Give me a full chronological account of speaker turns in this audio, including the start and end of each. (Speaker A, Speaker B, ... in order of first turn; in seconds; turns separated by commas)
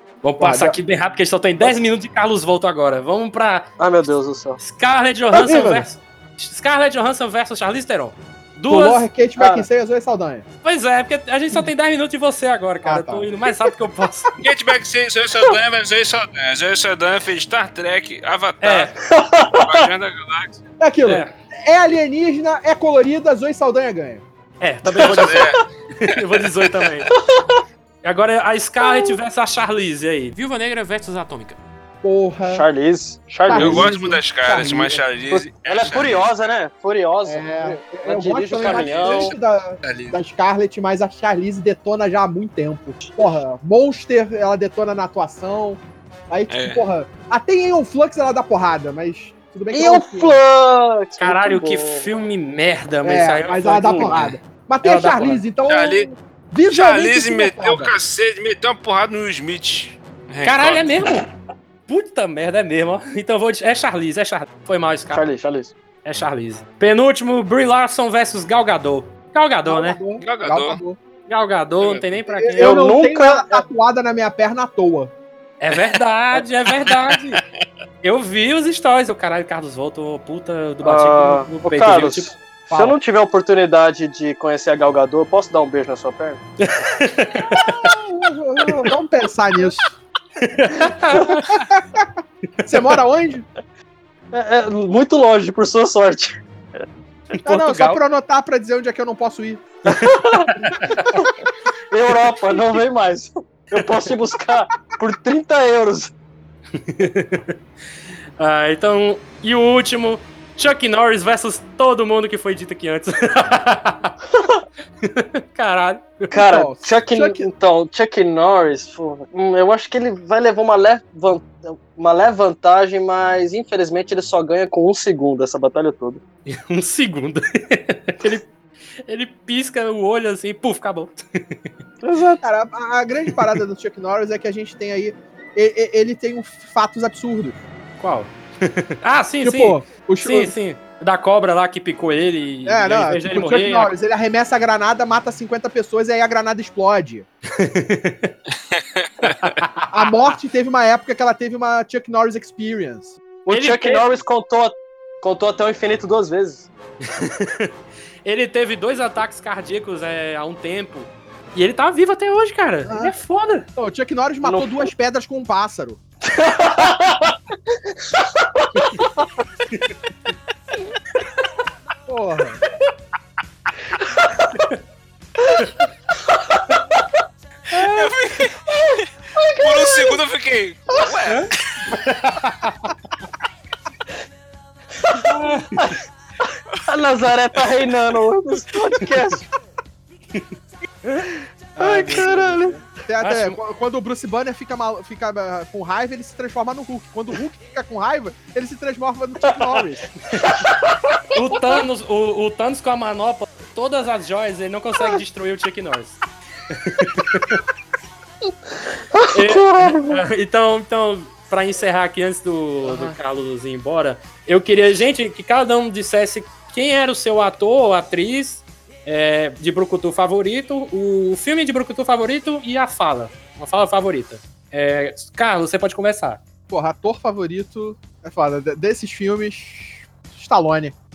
Speaker A: 0.2-3.7, Speaker B: 0.4-0.8, Speaker C: 3.8-4.6, Speaker A: 4.6-9.1, Speaker B: 5.3-5.9, Speaker B: 8.7-10.4, Speaker C: 9.4-9.7, Speaker A: 10.6-14.3, Speaker B: 12.8-13.3, Speaker D: 14.4-20.6, Speaker A: 18.6-18.9, Speaker C: 19.1-19.9, Speaker B: 20.8-24.2, Speaker A: 21.1-21.3, Speaker A: 24.6-27.1, Speaker C: 24.9-25.4, Speaker D: 25.0-25.6, Speaker A: 28.0-31.6, Speaker B: 32.0-32.7, Speaker C: 32.5-33.9, Speaker B: 33.5-35.0, Speaker D: 33.5-36.3, Speaker C: 35.3-39.4, Speaker B: 37.2-50.4, Speaker D: 38.7-39.3, Speaker D: 39.8-40.2, Speaker D: 46.5-46.9, Speaker C: 49.7-52.1, Speaker A: 51.2-54.1, Speaker B: 53.0-57.9, Speaker C: 53.9-54.1, Speaker A: 54.8-55.4, Speaker D: 55.7-56.1, Speaker D: 56.7-60.9, Speaker A: 60.4-61.3, Speaker A: 61.9-65.3, Speaker C: 65.1-65.7, Speaker A: 66.0-70.0, Speaker B: 69.7-71.0, Speaker D: 70.2-70.8, Speaker A: 71.3-72.8, Speaker D: 71.8-72.1, Speaker B: 72.3-75.1, Speaker C: 72.6-73.7, Speaker A: 75.6-77.4, Speaker A: 78.0-82.4, Speaker C: 80.8-86.4, Speaker B: 82.7-83.0, Speaker A: 86.6-88.0, Speaker B: 87.6-89.9, Speaker A: 90.4-91.6, Speaker B: 91.5-92.1, Speaker B: 92.7-93.5, Speaker C: 94.3-96.4, Speaker A: 97.3-98.0, Speaker B: 97.5-99.7, Speaker C: 99.9-101.3, Speaker A: 99.9-101.2, Speaker C: 101.9-106.1, Speaker A: 106.8-107.6, Speaker A: 108.4-114.1, Speaker C: 114.3-114.6, Speaker A: 115.0-116.3, Speaker C: 116.3-126.2, Speaker B: 116.3-117.5, Speaker A: 126.5-128.5, Speaker A: 129.1-131.7, Speaker C: 132.0-132.4, Speaker B: 132.4-137.6, Speaker A: 138.0-143.9, Speaker B: 139.4-140.5, Speaker B: 142.7-147.3, Speaker A: 147.5-148.3, Speaker D: 148.7-149.5, Speaker A: 149.2-150.1, Speaker B: 149.9-153.2, Speaker C: 153.5-156.7, Speaker A: 153.5-154.1, Speaker A: 157.1-157.7, Speaker A: 158.2-163.7, Speaker B: 162.9-163.2, Speaker B: 163.8-166.0, Speaker C: 164.4-164.9, Speaker C: 166.2-167.4, Speaker C: 168.1-169.3, Speaker B: 172.1-172.6, Speaker A: 177.7-178.1, Speaker D: 177.8-178.6, Speaker C: 179.4-180.2, Speaker D: 179.6-181.9, Speaker A: 181.3-182.9, Speaker A: 185.2-186.0, Speaker C: 186.9-189.4, Speaker A: 191.1-193.6, Speaker C: 191.8-192.8, Speaker B: 193.1-200.1, Speaker C: 199.5-199.8, Speaker C: 200.6-201.2, Speaker A: 201.3-206.2, Speaker A: 206.7-207.6, Speaker C: 209.1-210.2, Speaker A: 209.3-226.4, Speaker C: 212.8-213.2, Speaker B: 226.7-230.9